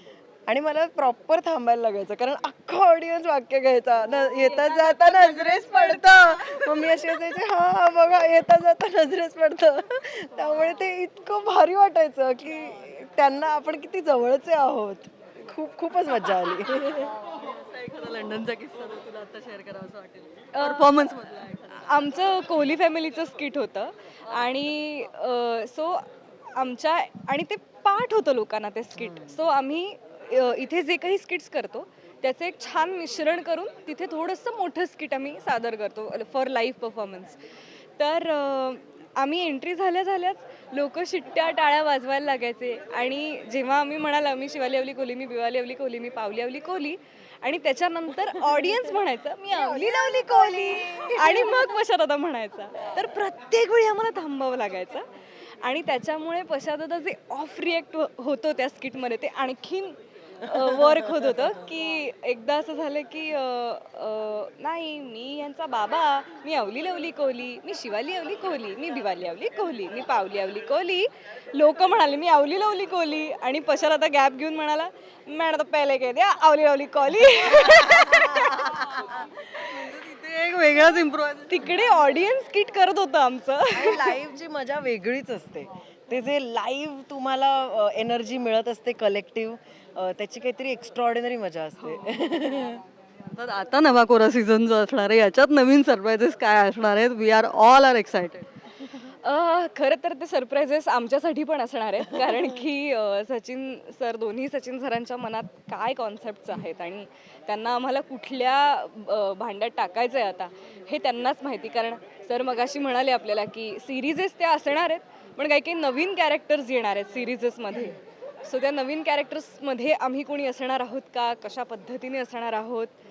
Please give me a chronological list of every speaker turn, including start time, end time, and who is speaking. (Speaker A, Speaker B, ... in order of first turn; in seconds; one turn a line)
Speaker A: 0.5-17.1
Speaker B: 4.4-6.8
Speaker C: 17.1-22.2
Speaker B: 20.6-21.1
Speaker B: 21.7-37.4
Speaker B: 38.0-55.1
Speaker A: 49.5-51.8
Speaker B: 55.6-78.7
Speaker C: 77.5-81.8
Speaker B: 81.5-84.2
Speaker A: 83.7-92.8
Speaker B: 91.8-92.3
Speaker C: 93.3-98.5
Speaker B: 99.2-122.9